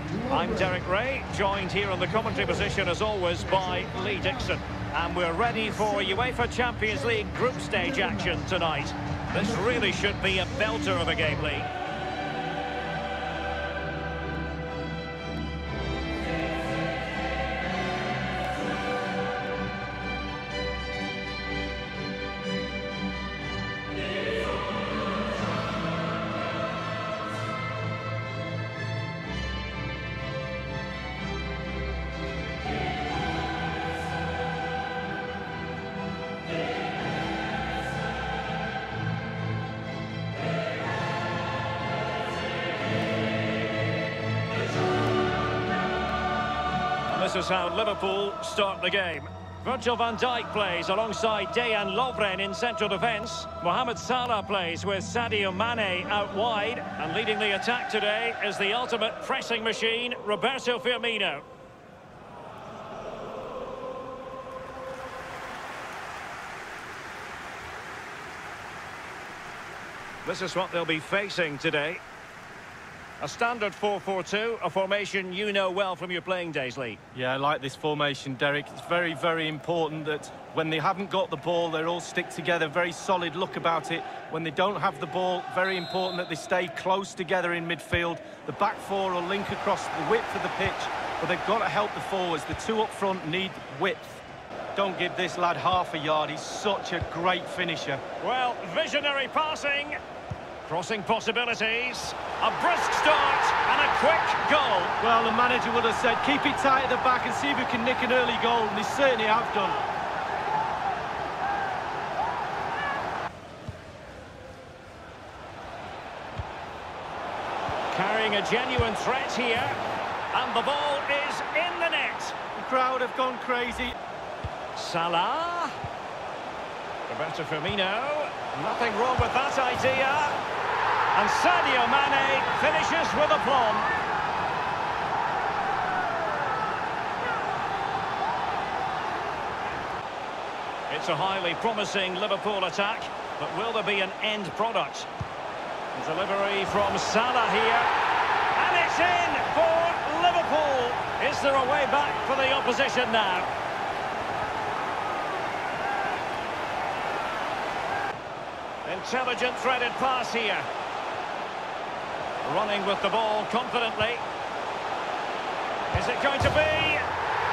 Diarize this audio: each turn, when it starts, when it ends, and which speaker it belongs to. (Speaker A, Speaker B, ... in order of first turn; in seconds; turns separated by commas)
Speaker A: 0.2-11.7, Speaker A: 47.1-61.4, Speaker A: 70.2-72.0, Speaker A: 73.2-77.0, Speaker B: 77.1-94.2, Speaker B: 94.8-98.0, Speaker A: 98.2-100.0, Speaker A: 100.6-104.9, Speaker B: 105.0-109.8, Speaker A: 117.9-119.8, Speaker A: 120.3-122.3, Speaker B: 122.5-124.0, Speaker A: 124.7-125.8, Speaker A: 127.1-130.4, Speaker A: 131.1-133.9, Speaker A: 140.9-145.1, Speaker A: 145.9-147.9, Speaker A: 148.6-153.5, Speaker A: 158.8-160.7, Speaker A: 162.4-164.2, Speaker A: 165.9-167.0